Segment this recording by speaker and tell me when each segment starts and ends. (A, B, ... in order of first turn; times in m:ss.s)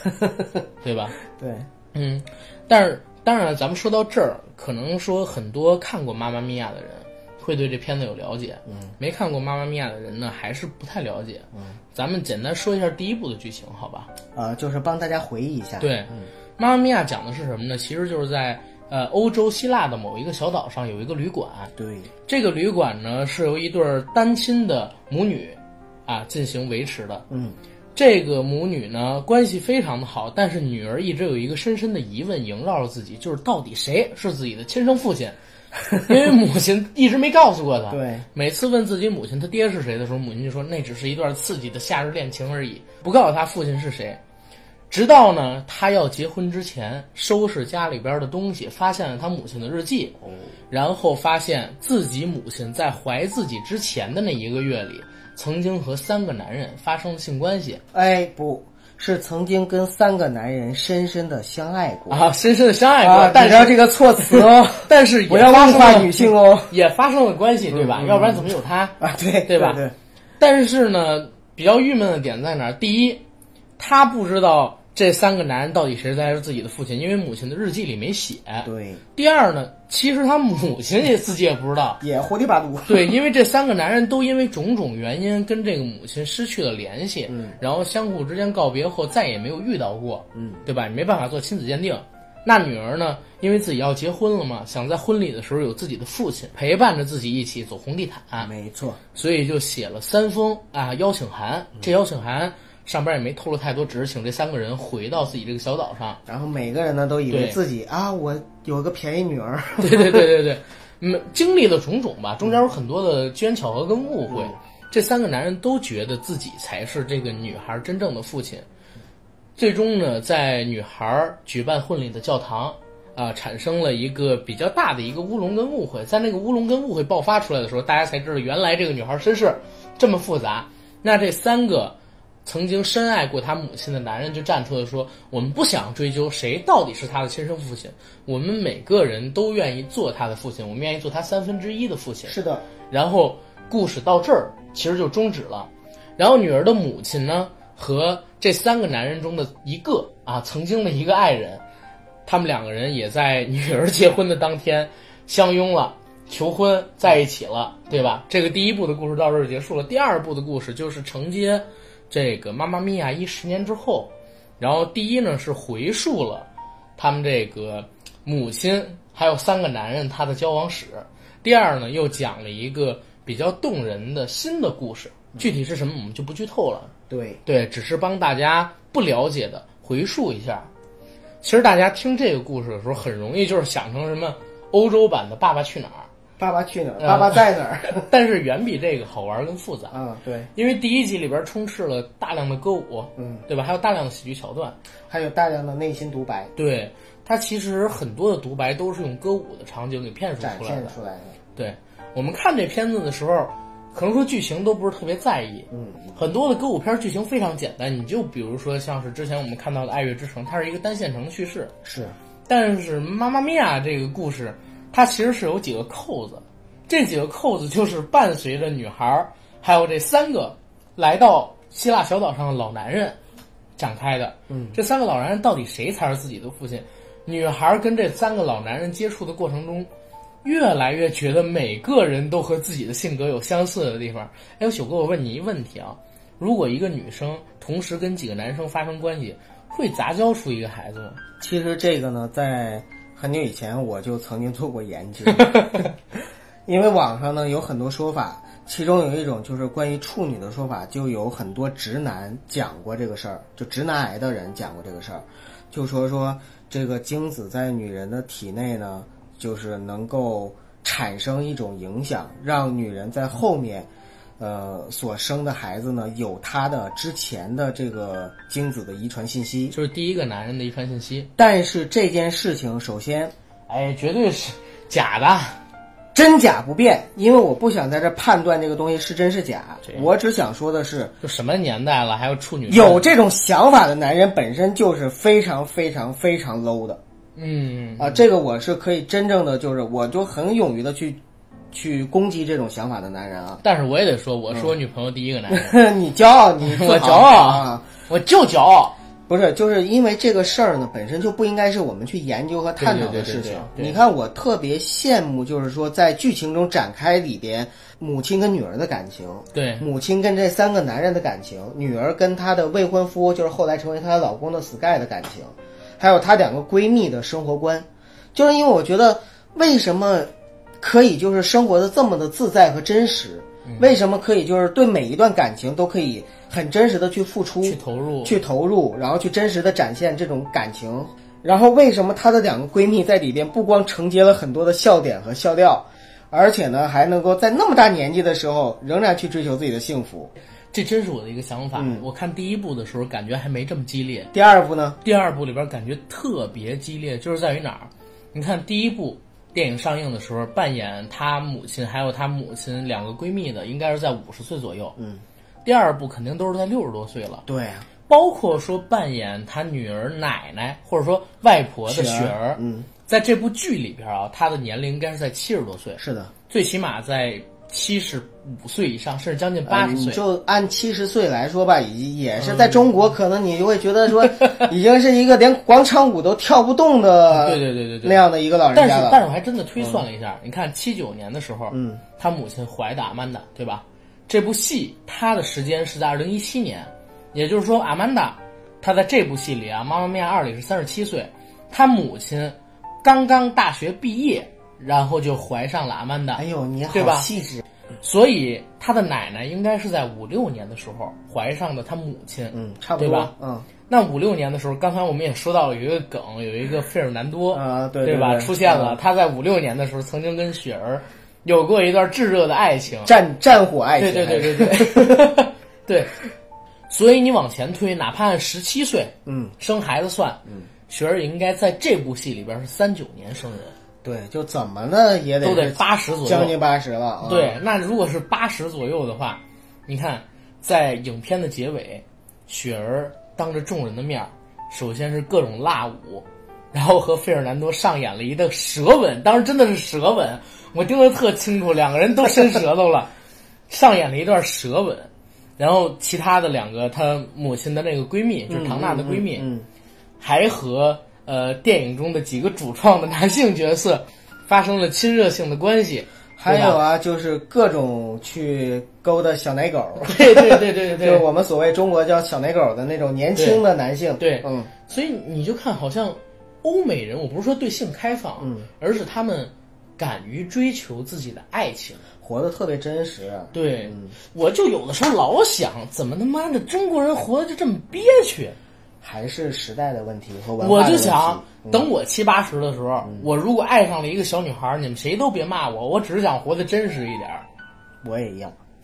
0:00.8-0:01.2 A
0:01.3-0:01.7 B
0:01.9-0:14.1 A
0:14.4-0:16.3 B
0:15.8-0:21.7 A
0:21.8-0:22.1 B
0:22.3-0:27.2 A
0:27.3-0:27.6 B
0:28.0-0:35.4 A
0:36.0-0:44.2 A
0:37.9-0:38.3 B
0:44.9-0:57.8 A
0:57.9-1:02.2 B
1:02.1-1:09.8 A
1:03.0-1:06.7 B
1:07.7-1:09.9 B
1:10.4-1:13.2 A
1:13.8-1:22.0 A
1:18.6-1:19.0 B
1:22.0-1:23.2 B
1:22.9-1:38.5 A
1:27.3-1:27.6 B
1:30.4-1:30.6 B
1:38.4-1:39.0 B
1:39.1-1:46.2 A
1:46.3-1:50.3 B
1:47.3-1:47.6 A
1:49.8-1:58.6 A
1:54.3-1:54.6 B
1:59.6-2:22.4 A
2:22.3-2:22.6 B
2:22.9-2:31.6 A
2:32.3-2:56.9 A
2:57.1-2:57.4 B
2:57.4-3:00.7 A
3:01.4-3:06.1 A
3:06.4-3:08.1 B
3:07.0-3:10.0 A
3:09.9-3:10.5 B
3:10.6-3:14.8 A
3:13.2-3:13.4 B
3:15.1-3:16.5 B
3:16.6-3:20.9 A
3:20.4-3:21.4 B
3:21.6-3:31.8 A
3:25.7-3:26.2 B
3:31.8-3:32.2 B
3:32.5-3:43.2 A
3:43.8-3:49.9 A
3:44.5-3:44.8 B
3:50.4-4:01.2 A
4:01.4-4:05.9 B
4:05.3-4:05.9 A
4:06.7-4:23.9 B
4:24.4-4:29.8 B
4:29.7-4:31.3 A
4:31.4-4:33.3 B
4:33.7-4:35.6 A
4:36.1-4:41.2 B
4:41.2-4:43.1 A
4:42.7-4:47.0 B
4:47.4-4:48.3 A
4:48.0-4:51.2 B
4:51.7-4:53.6 B
4:53.6-4:55.8 A
4:55.5-4:57.8 B
4:56.6-4:58.9 A
4:59.3-5:40.3 B
5:02.8-5:04.0 A
5:09.5-5:09.8 A
5:23.7-5:24.0 A
5:27.6-5:28.4 A
5:40.7-5:44.3 A
5:41.8-5:42.0 B
5:44.3-5:45.0 B
5:45.0-5:55.0 A
5:55.0-5:55.2 B
5:55.6-5:57.4 A
5:57.5-5:57.9 B
5:58.1-6:10.2 A
6:01.9-6:02.9 B
6:06.0-6:06.3 B
6:09.7-6:19.2 B
6:12.4-6:12.9 A
6:17.3-6:18.2 A
6:18.7-6:37.3 A
6:19.8-6:20.0 B
6:21.7-6:22.0 B
6:36.4-6:37.6 B
6:38.0-6:43.3 A
6:42.5-6:43.7 B
6:43.9-6:53.1 A
6:47.5-6:49.0 B
6:53.0-6:55.3 B
6:54.0-6:56.2 A
6:56.9-7:03.8 A
6:59.3-6:59.6 B
7:04.0-7:07.6 B
7:05.4-7:06.6 A
7:07.2-7:23.1 A
7:23.7-7:29.5 A
7:28.5-7:29.7 B
7:30.2-7:36.8 A
7:36.4-7:44.7 B
7:40.0-7:41.2 A
7:43.4-7:43.6 A
7:44.2-7:52.0 A
7:48.4-7:48.7 B
7:52.2-7:54.1 B
7:53.5-7:58.6 A
7:59.0-8:01.9 B
8:00.6-8:07.4 A
8:03.0-8:03.3 B
8:08.0-8:08.6 B